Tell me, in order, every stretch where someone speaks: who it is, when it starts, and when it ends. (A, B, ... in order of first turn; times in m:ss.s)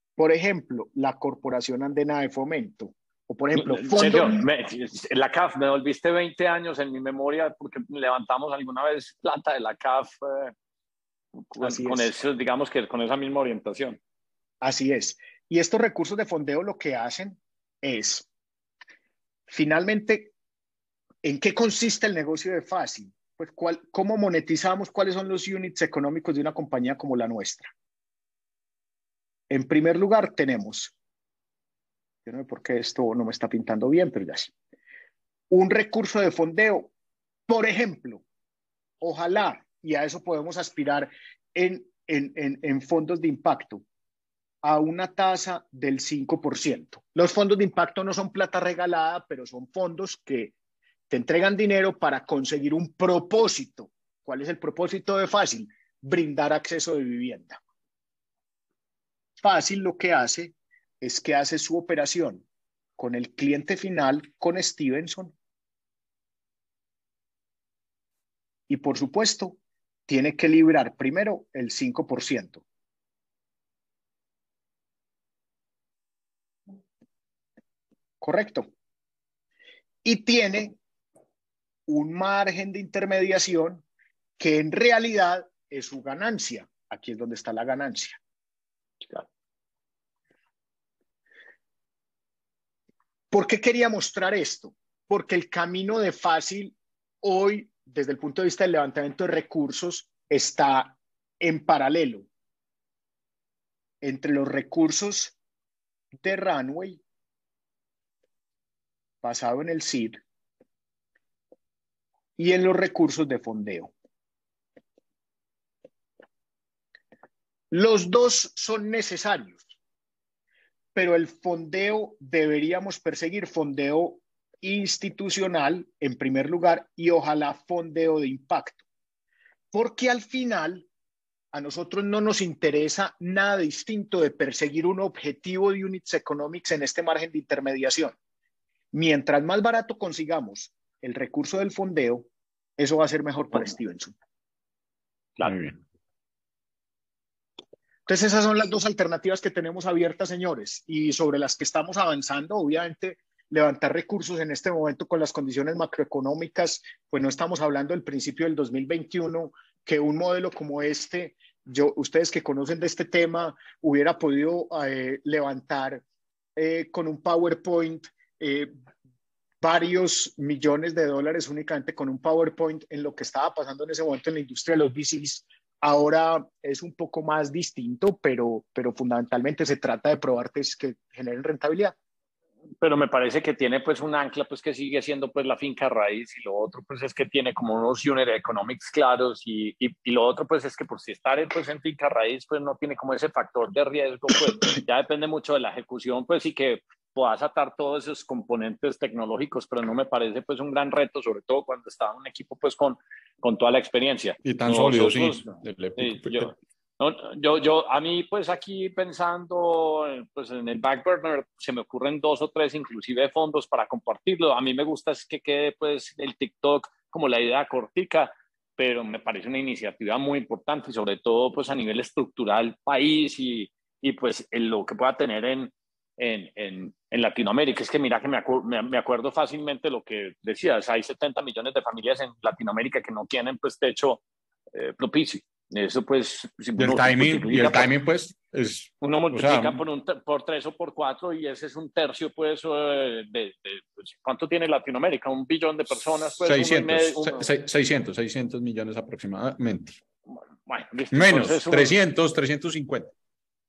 0:00.2-0:04.5 A
0:03.6-0:10.5 B
0:11.5-0:14.0 B
0:11.6-0:12.1 A
0:14.6-0:18.3 A
0:19.5-0:20.3 A
0:21.2-0:27.7 A
0:29.5-0:31.0 A
0:32.2-0:34.5 A
0:35.5-0:36.9 A
0:37.5-0:38.2 A
0:39.0-0:43.8 A
0:44.6-0:50.5 A
0:51.1-0:57.6 A
0:59.4-1:02.4 A
1:03.0-1:05.3 A
1:08.7-1:12.6 A
1:18.2-1:18.7 A
1:20.0-1:20.8 A
1:21.9-1:23.8 A
1:24.4-1:28.2 A
1:33.3-1:42.3 A
1:44.0-1:45.4 A
1:46.2-1:47.0 A
1:49.2-1:50.2 A
1:52.4-1:53.9 A
1:57.7-1:59.7 A
2:01.0-2:08.8 A
2:09.7-2:10.9 A
2:11.5-2:18.2 A
2:18.9-2:24.1 A
2:25.4-2:25.8 C
2:28.1-2:46.0 A
2:46.6-2:48.7 A
2:49.6-3:02.0 A
3:02.8-3:54.2 B
3:24.4-3:26.5 C
3:54.7-3:57.9 B
3:56.8-3:59.8 C
3:59.0-4:07.5 B
4:06.4-4:10.0 C
4:10.7-4:12.0 B
4:11.1-4:13.1 C